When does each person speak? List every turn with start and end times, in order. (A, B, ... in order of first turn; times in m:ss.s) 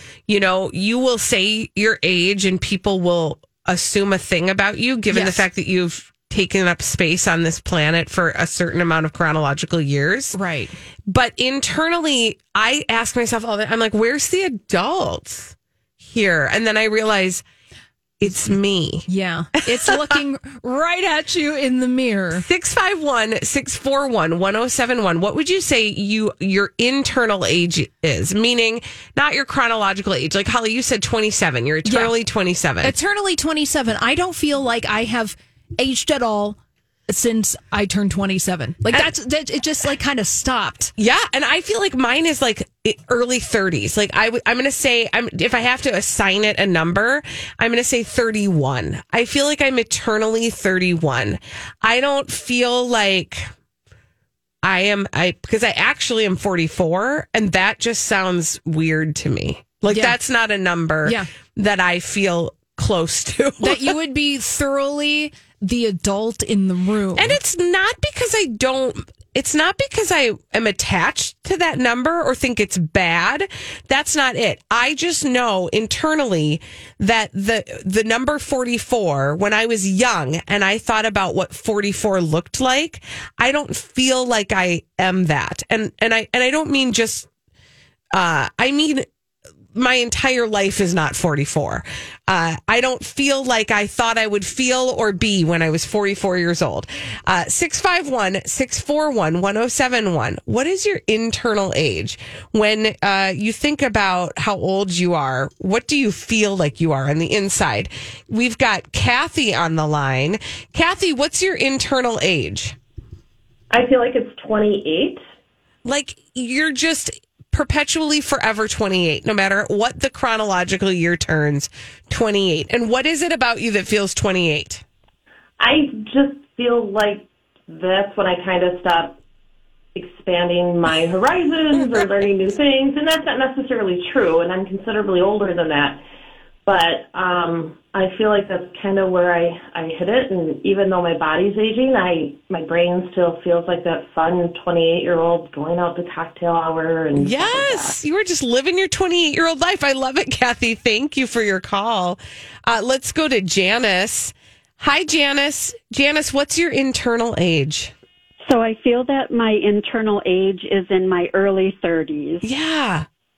0:00.3-0:10.4 A
0:05.1-0:05.4 B
0:10.3-0:10.7 B
0:11.1-0:17.4 A
0:18.2-0:19.0 A
0:19.1-0:22.4 B
0:19.6-0:20.2 A
0:22.3-0:32.9 A
0:31.8-0:32.1 B
0:32.8-0:40.9 B
0:41.0-0:53.5 A
0:54.6-1:03.9 A
0:59.9-1:00.1 B
1:03.6-1:07.4 B
1:07.2-1:27.3 A
1:28.1-1:29.0 A
1:29.7-1:52.8 A
1:53.7-1:55.2 C
1:55.8-2:04.8 A
2:05.6-2:09.2 C
2:09.9-2:16.0 C
2:16.6-2:28.0 C
2:27.2-2:37.9 A
2:38.4-2:42.4 D
2:42.4-2:43.0 A